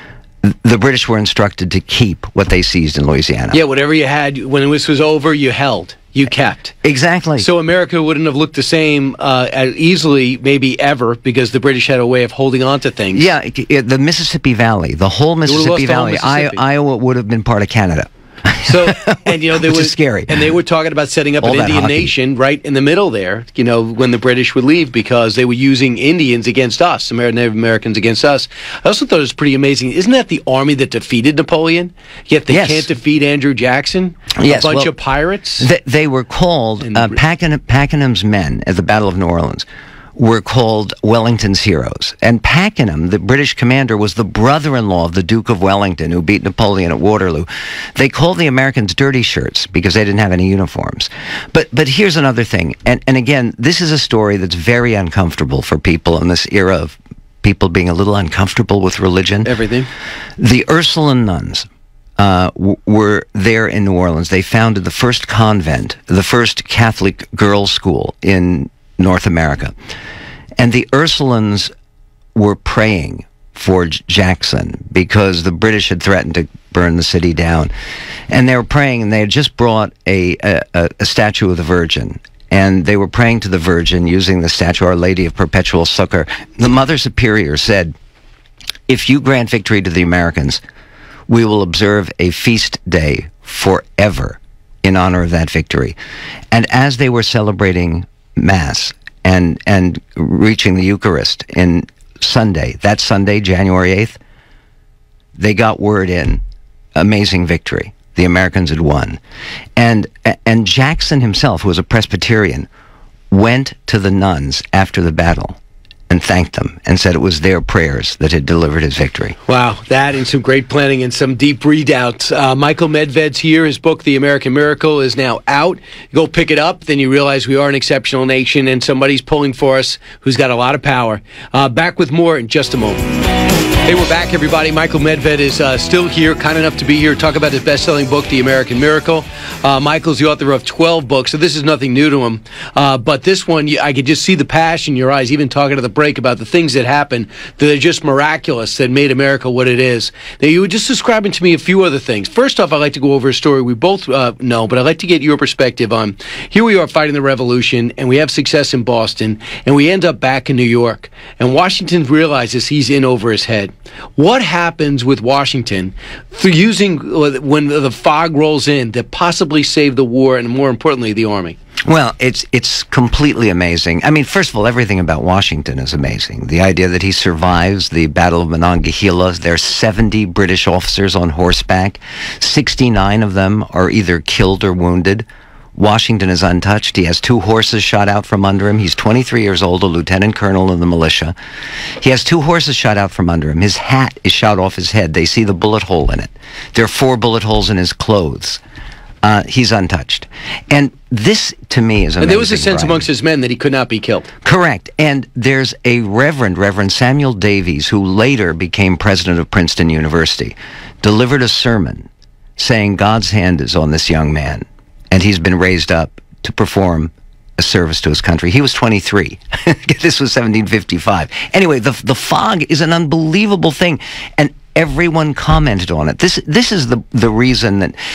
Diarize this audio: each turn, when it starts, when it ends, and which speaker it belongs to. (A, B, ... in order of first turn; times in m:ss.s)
0:00.4-0:03.6 A
0:03.5-0:06.8 B
0:06.8-0:07.5 A
0:07.4-0:13.3 B
0:13.1-0:20.5 A
0:15.5-0:16.6 B
0:18.6-0:35.7 B
0:21.4-0:22.1 A
0:32.5-0:32.9 A
0:34.4-0:34.9 A
0:35.6-0:59.5 A
0:36.8-0:37.2 B
0:59.4-0:59.9 B
1:00.4-1:01.7 A
1:02.2-1:09.7 A
1:10.6-1:11.7 A
1:12.4-1:17.7 A
1:18.3-1:27.9 A
1:28.9-1:30.6 A
1:31.3-1:36.0 A
1:36.5-1:44.2 A
1:45.4-1:46.4 A
1:47.0-1:49.2 A
1:49.8-1:52.7 A
1:53.3-1:55.6 A
1:56.1-1:59.4 A
1:59.5-2:13.0 B
2:13.8-2:51.6 B
2:51.8-3:11.4 A
3:12.0-3:18.6 A
3:19.2-3:23.1 A
3:22.2-3:24.3 B
3:24.4-3:48.0 A